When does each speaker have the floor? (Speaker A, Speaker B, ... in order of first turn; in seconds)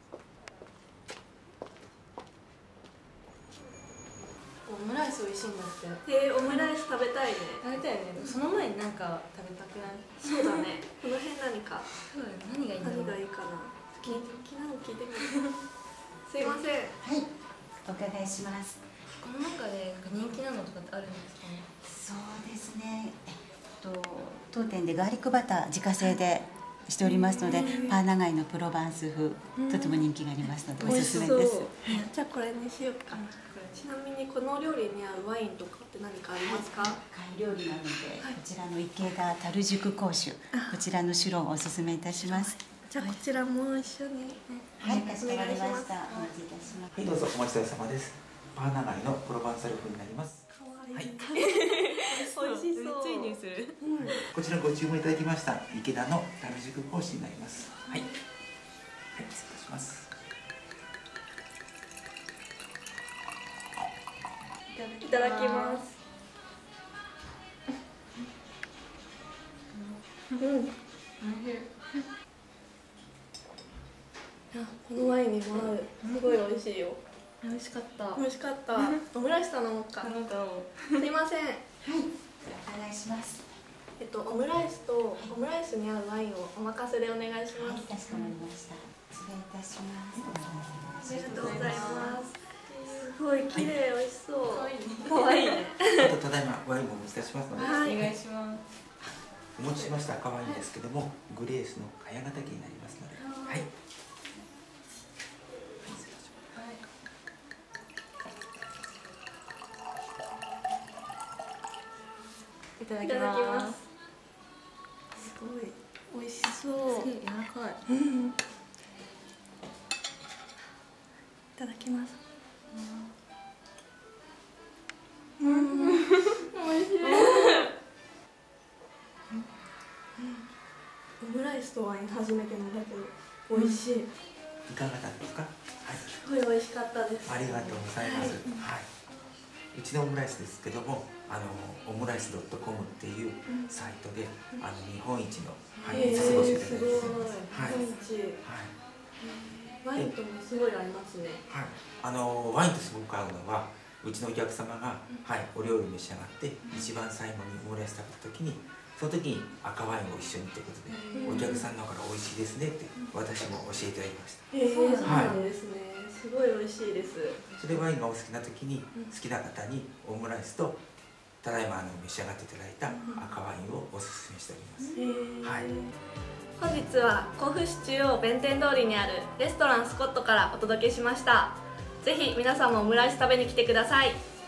Speaker A: 4.7-6.7, 7.6-10.7, 12.1-13.2, 14.0-14.3, 19.2-21.7, 27.0-27.9, 29.6-29.9, 30.8-32.0, 33.1-33.8, 44.5-45.1, 51.3-53.8, 64.7-65.9, 69.7-70.4, 71.2-72.1, 76.0-76.4, 77.4-78.2, 78.8-79.0, 80.0-81.0, 88.1-88.4, 91.0-93.1, 94.5-95.8, 97.6-98.6, 103.2-103.6, 106.5-106.8, 112.8-113.8, 116.9-117.8, 122.7-123.1, 125.4-126.5, 127.0-127.7, 145.8-147.9, 160.9-161.6, 164.6-165.5, 174.8-175.0
Speaker B: 6.0-7.6, 10.2-11.9, 12.8-15.4, 16.2-17.0, 27.5-27.9, 30.8-37.0, 40.5-40.8, 42.2-46.3, 50.5-54.2, 65.0-66.0, 70.4-70.7, 74.5-77.0, 78.1-80.1, 80.9-81.6, 84.0-87.9, 91.1-92.3, 92.8-96.1, 97.6-98.1, 113.0-113.8, 115.1-117.1, 117.9-118.3, 121.5-122.2, 125.4-127.7, 130.2-130.4, 131.2-134.1, 136.1-138.4, 145.8-148.4, 149.8-151.4, 161.1-161.6, 164.5-167.4, 172.9-173.2, 174.9-175.9, 176.6-184.2
Speaker C: 17.0-17.3, 17.8-18.8, 21.8-32.0, 36.3-42.5, 44.8-47.2, 81.8-83.5, 87.5-92.0
Speaker D: 46.9-51.1, 54.0-58.1, 59.1-60.1, 95.9-98.0, 99.5-103.7, 105.8-106.5, 134.7-136.1, 137.2-138.9, 139.7-147.8, 148.4-148.7, 151.5-164.4, 165.0-165.3, 167.6-170.8, 171.4-175.7